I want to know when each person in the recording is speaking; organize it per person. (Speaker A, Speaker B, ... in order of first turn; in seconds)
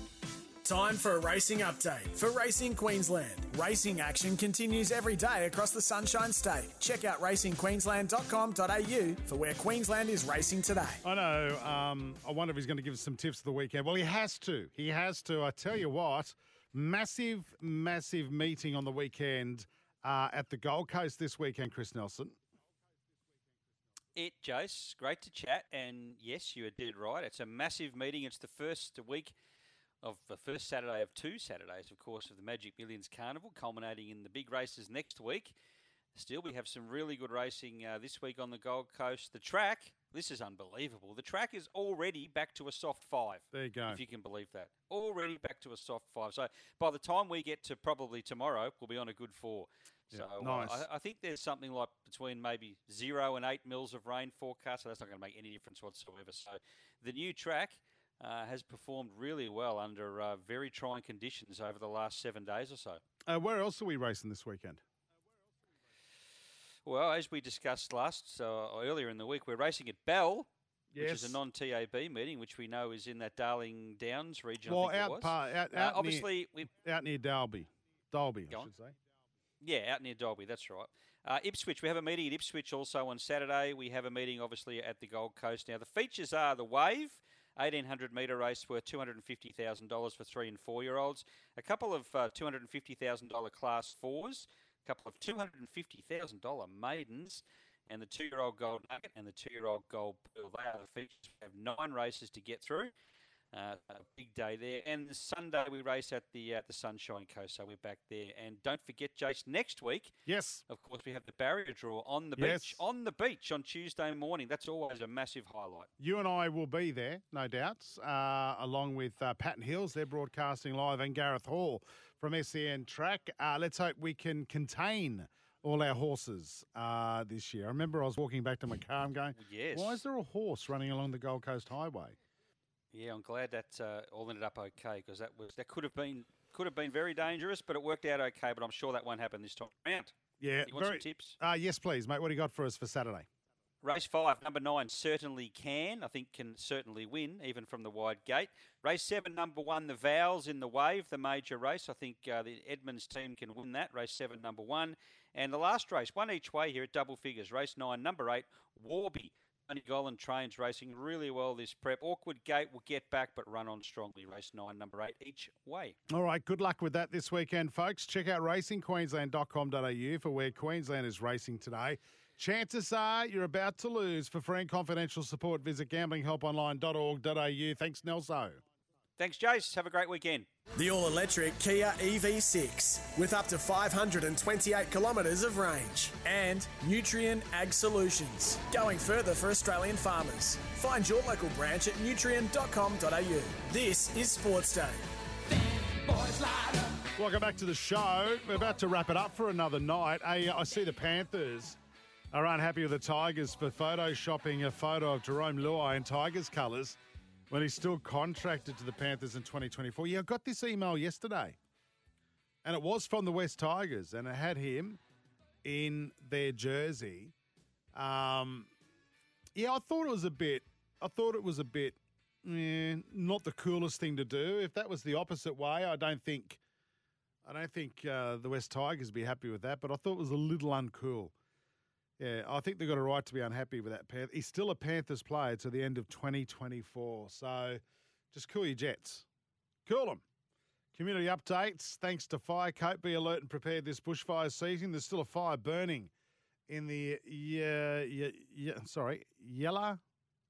Speaker A: 0.6-11.0, 180.8-195.0
Speaker B: 11.0-22.4, 43.5-44.0, 50.1-50.8, 63.3-64.8, 70.9-71.4, 74.6-78.9, 110.3-110.6, 112.4-112.8, 116.0-132.2, 140.4-143.3, 166.1-178.6, 197.2-201.8, 202.3-207.0, 207.5-211.6, 212.6-215.0, 215.6-217.3, 217.9-218.7, 219.5-226.6, 227.4-231.3, 232.2-237.8, 238.3-239.2, 239.8-240.2, 240.9-246.1, 246.7-250.0
Speaker C: 24.1-29.3, 30.0-35.5, 36.1-63.0, 66.8-76.7, 79.6-102.9, 103.5-110.1, 110.7-115.9, 129.4-130.0, 132.9-140.1, 140.7-141.3, 143.8-165.9, 179.2-180.5